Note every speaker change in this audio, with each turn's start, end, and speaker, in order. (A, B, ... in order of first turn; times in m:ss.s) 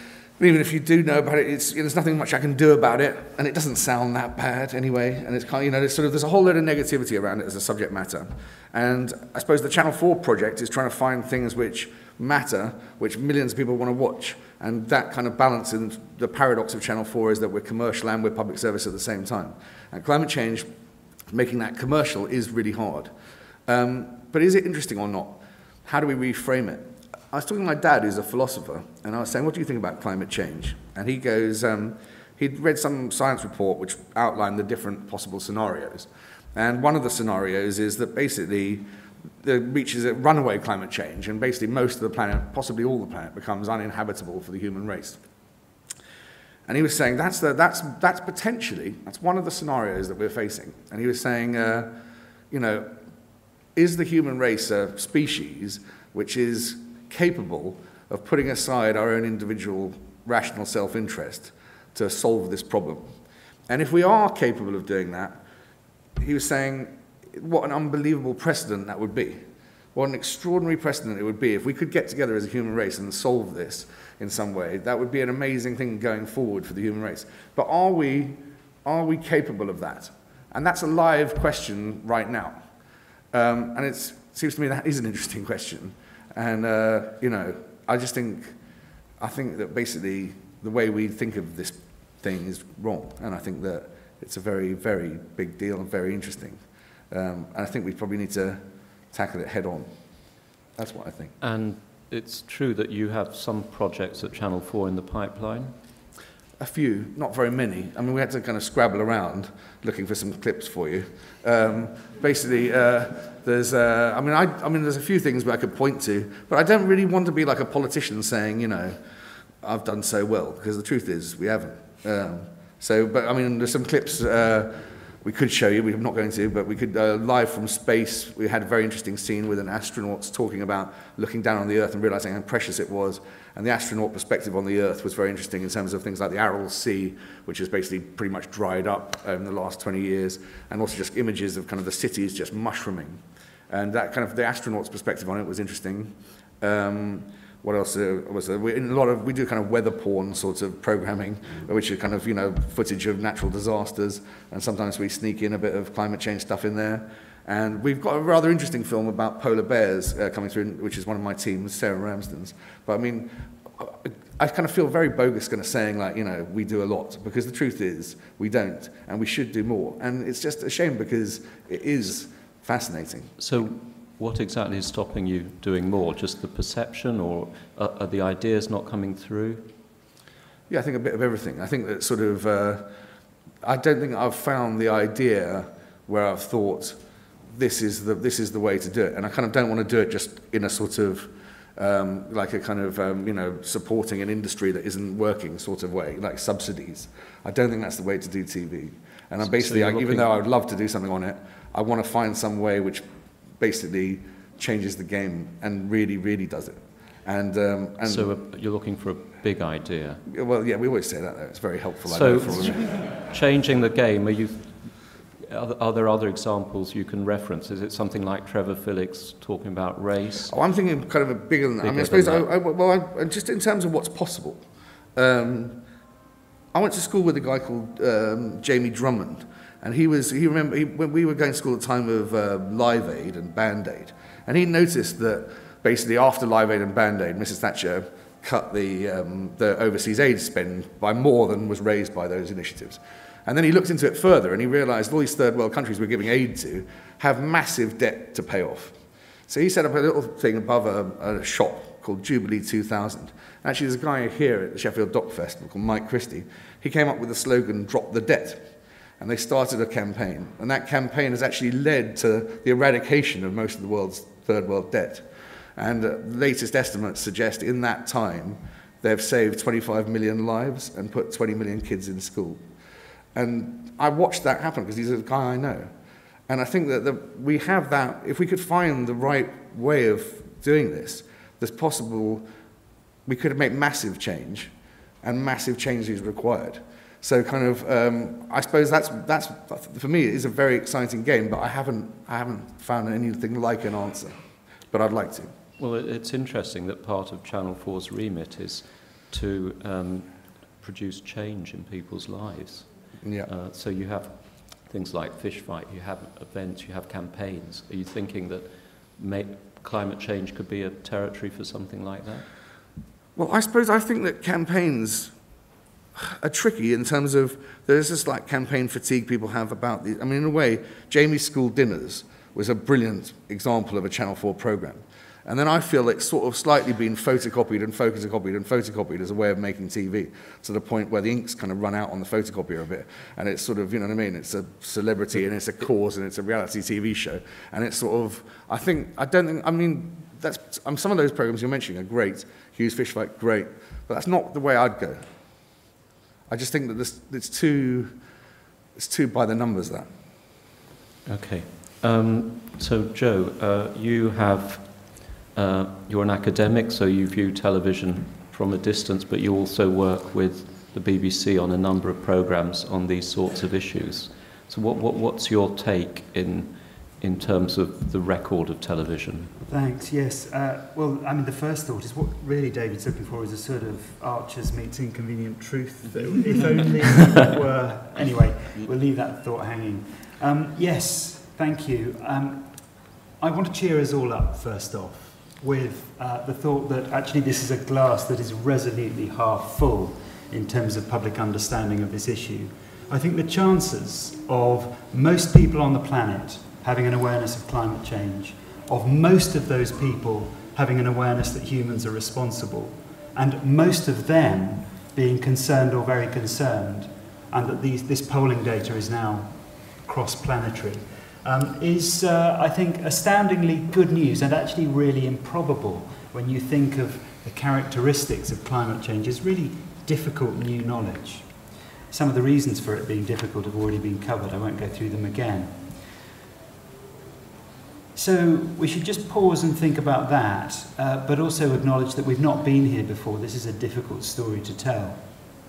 0:00.4-0:20.7 A
0:21.3-0:23.1 A
0:23.7-0:38.8 A
0:39.4-0:45.2 A
0:46.7-0:51.9 A
0:52.5-0:52.9 A
0:53.8-1:03.0 A
1:03.7-1:05.4 A
1:06.2-1:22.6 A
1:23.3-1:28.5 A
1:29.2-1:39.9 A
1:40.8-1:41.3 A
1:41.4-1:45.7 B
1:46.6-1:59.0 A
1:59.6-2:04.7 A
2:05.2-2:53.3 A
2:53.4-2:59.7 B
3:00.7-3:02.9 A
3:03.6-3:07.0 A
3:07.5-3:23.0 A
3:19.4-3:20.3 B
3:23.6-3:28.3 A
3:28.0-3:30.2 B
3:30.3-3:32.9 A
3:32.1-3:40.5 B
3:40.5-3:44.6 A
3:41.8-3:42.5 B
3:45.2-3:45.8 A
3:46.7-4:08.9 A
4:09.5-4:32.6 A
4:33.3-4:35.9 A
4:36.5-4:42.4 A
4:43.2-4:44.7 A
4:45.2-4:54.3 A
4:54.9-4:55.5 A
4:55.8-5:12.4 B
5:03.2-5:03.5 A
5:13.4-5:15.3 A
5:16.2-5:45.2 A
5:46.5-5:48.1 A
5:49.0-5:50.1 A
5:51.2-6:09.5 B
6:09.7-7:01.5 C
7:02.1-7:05.9 C
7:08.1-7:15.2 C